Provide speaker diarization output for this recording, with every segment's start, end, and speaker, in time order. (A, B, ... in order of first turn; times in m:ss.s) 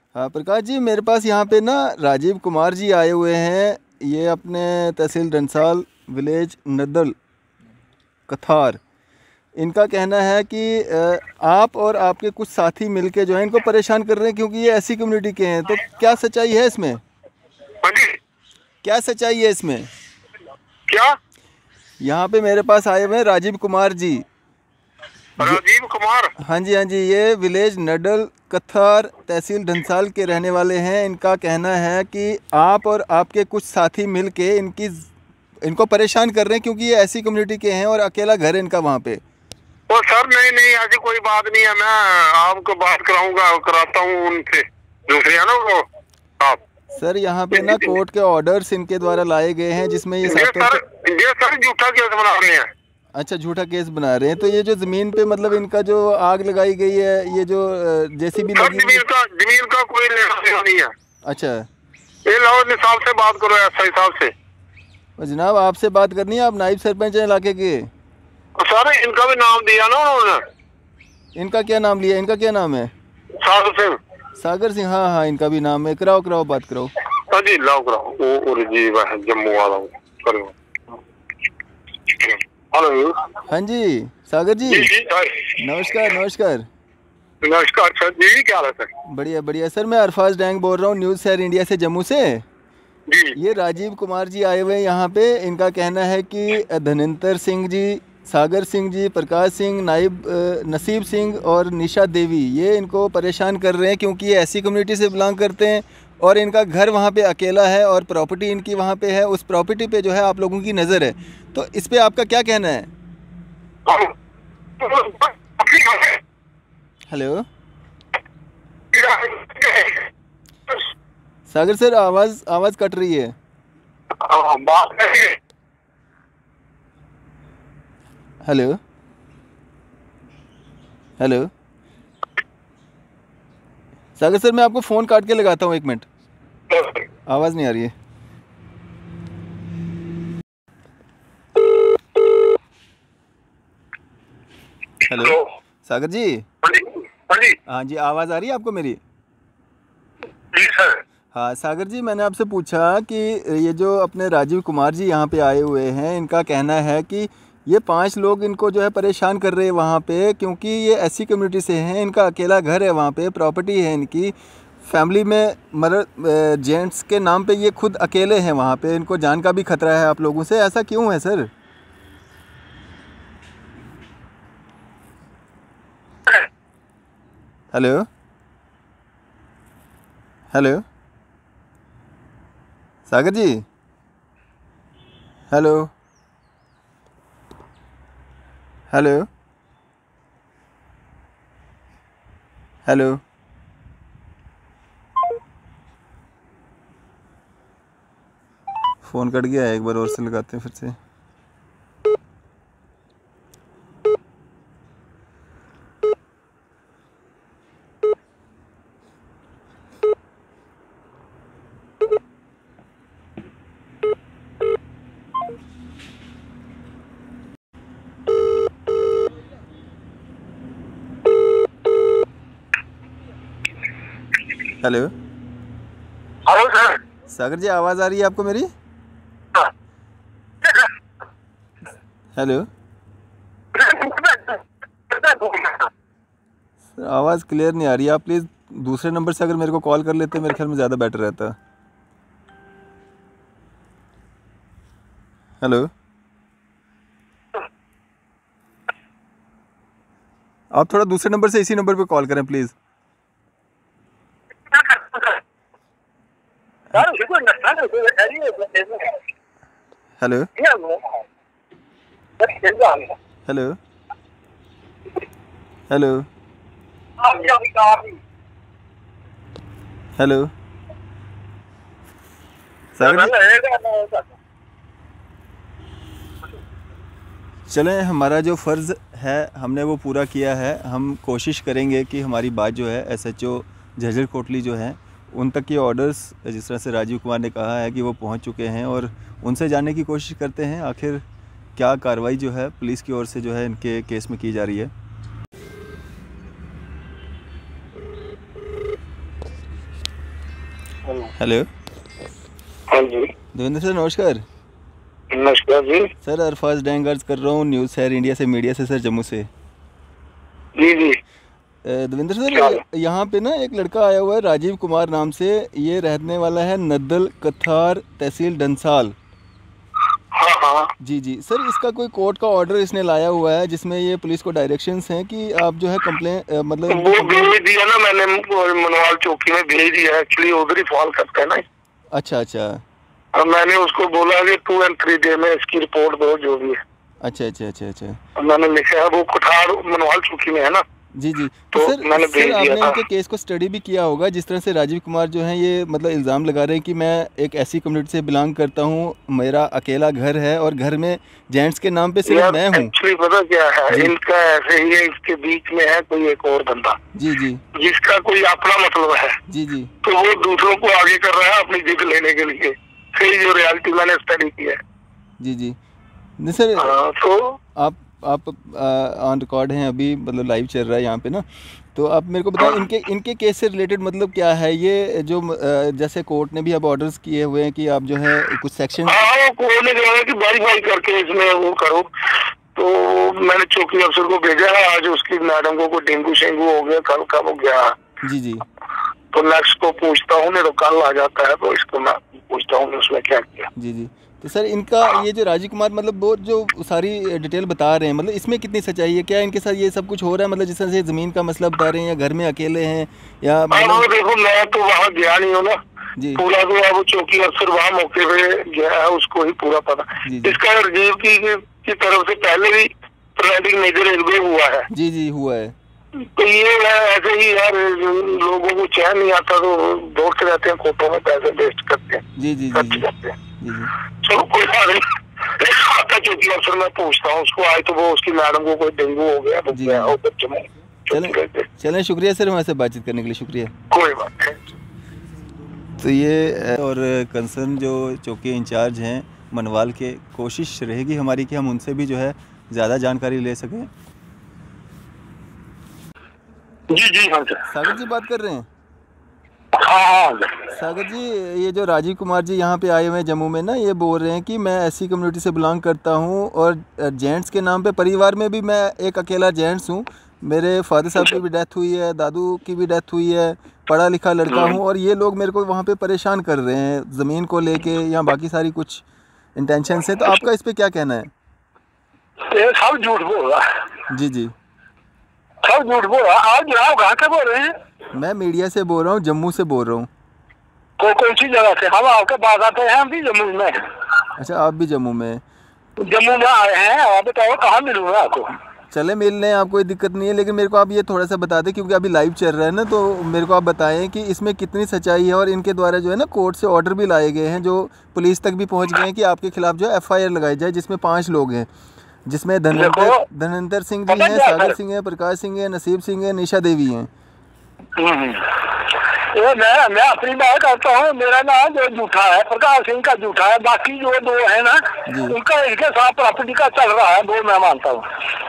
0:00.2-0:07.2 A
0:08.3-0:08.8 A
0:09.6-0:17.0 A
0:17.8-0:18.2 B
0:18.8-0:19.9 A
0:20.9-0:21.2 B
0:22.0-0:24.2 A
0:25.4-0:26.3 B
0:26.4-0:35.1 A
0:35.6-0:39.2 A
0:39.9-0:45.9 B
0:47.0-0:50.8 A
0:47.6-0:47.9 B
0:50.3-0:52.7 B
0:53.1-0:59.0 A
0:58.6-1:00.9 B
1:01.2-1:01.7 A
1:02.3-1:04.3 B
1:05.2-1:07.9 A
1:08.6-1:10.4 B
1:11.4-1:12.9 A
1:13.4-1:14.0 B
1:14.4-1:16.9 A
1:17.3-1:21.0 B
1:22.1-1:23.3 B
1:23.5-1:24.9 A
1:24.7-1:25.6 B
1:25.6-1:26.7 A
1:27.4-1:28.9 B
1:29.0-1:32.5 A
1:33.1-1:33.4 B
1:33.4-1:52.9 A
1:53.9-1:54.1 B
1:54.8-1:56.2 B
1:57.1-1:57.5 A
1:58.9-2:00.1 B
2:01.5-2:03.4 A
2:04.2-2:05.4 B
2:08.4-2:08.8 A
2:11.2-2:11.5 A
2:14.2-2:16.1 A
2:16.7-2:17.0 B
2:17.3-2:17.9 A
2:25.1-2:26.5 A
2:25.1-2:25.4 B
2:26.7-2:27.6 B
2:27.7-2:29.0 A
2:30.5-2:31.0 B
2:31.3-2:51.5 A
2:57.7-2:58.1 A
3:00.5-3:00.8 A
3:03.1-3:03.6 A
3:05.5-3:05.9 A
3:08.9-3:09.3 A
3:12.9-3:13.2 A
3:19.0-3:21.0 A
3:44.8-3:45.1 A
3:46.5-3:47.0 C
3:47.3-3:48.7 A
3:52.4-3:52.7 A
3:53.8-3:55.9 C
3:57.0-4:01.6 A
4:05.6-4:05.9 A
4:10.7-4:12.8 A
4:14.7-4:15.4 C
4:16.9-4:19.2 C
4:20.2-4:20.5 A
4:20.6-4:21.2 C
4:22.4-4:23.2 C
4:23.5-4:23.8 A
4:25.9-4:26.3 A
4:27.2-4:28.2 C
4:30.2-4:30.5 A
4:33.0-4:33.4 A
4:33.0-4:34.3 C
4:37.7-4:51.2 A
4:51.8-4:54.9 A
5:01.4-5:01.7 A
5:02.9-5:03.3 B
5:03.5-5:04.4 A
5:05.3-5:06.1 B
5:06.2-5:09.5 A
5:10.8-5:11.2 B
5:11.8-5:19.2 A
5:12.5-5:12.8 B
5:20.3-5:20.9 B
5:21.0-5:27.5 A
5:26.9-5:31.6 B
5:32.1-5:32.8 A
5:33.4-5:36.8 B
5:37.2-5:38.2 A
5:38.4-5:40.8 B
5:41.2-5:52.9 A
5:41.7-5:43.0 B
5:52.3-5:57.0 B
5:57.1-5:57.6 A
5:57.7-5:59.4 B
5:59.5-5:59.9 A
6:00.0-6:04.8 B
6:05.4-6:05.8 A
6:06.4-6:06.9 A
6:06.8-6:07.6 B
6:07.8-6:19.2 A
6:19.1-6:28.0 B
6:28.2-6:28.6 A
6:29.3-6:33.7 B
6:33.8-6:44.1 A
6:43.7-6:45.8 B
6:46.2-6:46.4 A
6:46.4-6:54.9 B
6:50.2-6:50.6 A
6:54.9-6:55.8 A
6:56.2-7:03.4 B
7:02.4-7:03.9 A
7:04.2-7:11.7 B
7:09.7-7:10.2 A
7:11.1-7:13.7 A
7:13.9-7:14.7 B
7:16.0-7:23.9 A
7:27.0-7:27.5 C
7:27.7-7:28.7 A
7:29.8-7:30.5 C
7:30.7-7:49.0 A
7:44.5-7:44.8 B
7:49.6-7:51.3 A
7:52.5-7:53.9 C
7:54.1-7:54.5 A
7:55.6-7:57.8 C
7:58.1-8:00.1 A
8:01.0-8:03.9 C
8:04.4-8:05.4 A
8:06.0-8:08.6 C
8:08.9-8:21.7 A
8:22.3-8:27.1 A
8:22.8-8:23.2 C
8:24.1-8:24.8 C
8:28.0-8:38.1 C
8:35.1-8:35.4 A